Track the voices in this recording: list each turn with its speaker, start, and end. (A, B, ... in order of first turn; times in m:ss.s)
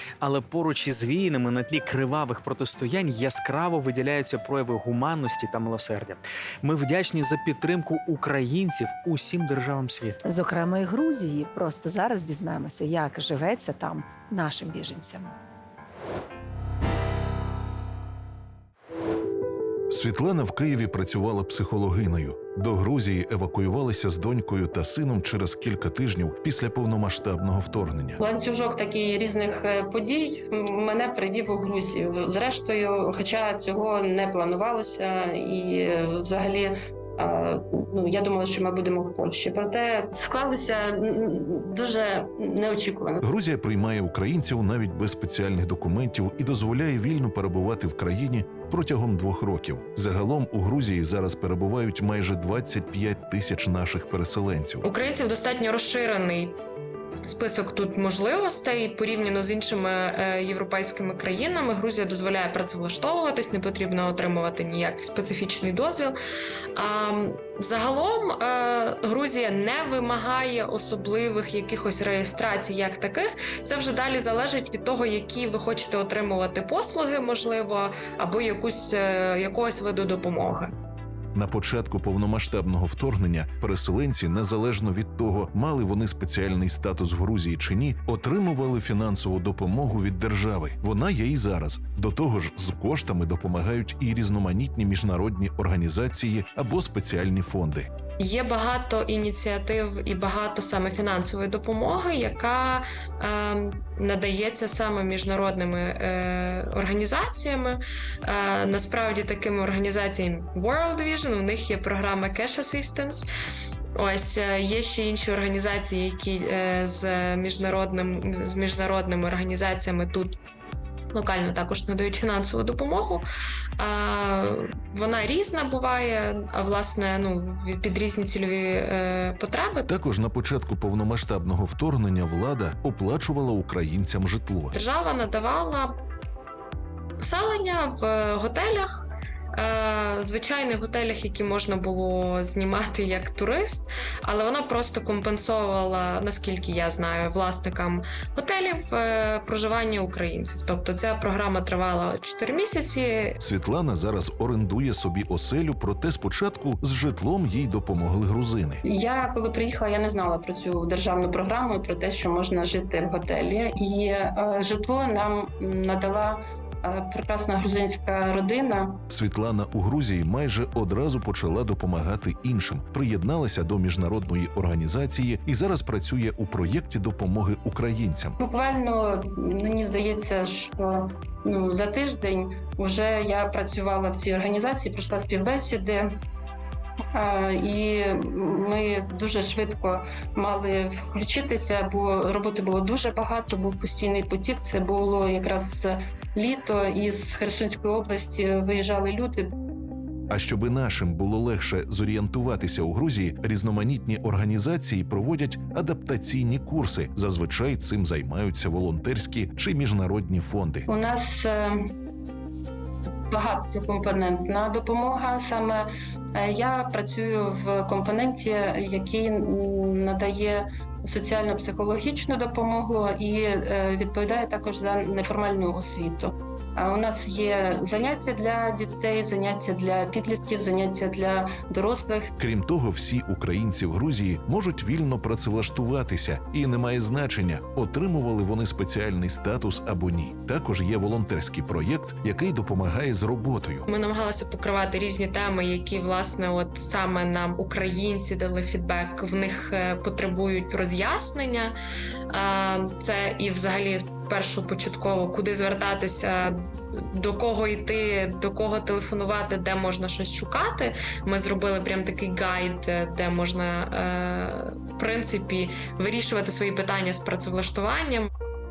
0:00.2-0:10.2 A
0:10.3-0:15.3 B
0:19.9-0:28.2 C
0:28.2-0:43.2 D
0:43.2-0:54.8 C
0:54.8-0:56.6 E
0:57.2-1:06.2 E
1:06.7-1:20.7 E
1:21.3-1:37.9 C
1:38.2-1:53.2 E
1:54.0-2:00.4 E
2:01.1-2:03.2 E
2:03.8-2:09.9 E
2:09.9-2:14.7 C
2:14.7-2:15.9 E
2:17.2-2:19.0 E
2:19.5-2:33.4 E
2:33.4-2:38.8 C
2:38.8-2:49.0 D
2:49.1-2:58.4 C
2:58.4-3:06.1 D
3:07.1-3:19.5 D
3:20.3-3:30.9 C
3:30.9-3:31.8 D
3:33.3-3:52.3 D
3:52.4-4:03.9 C
4:03.9-4:11.7 E
4:12.3-4:28.3 E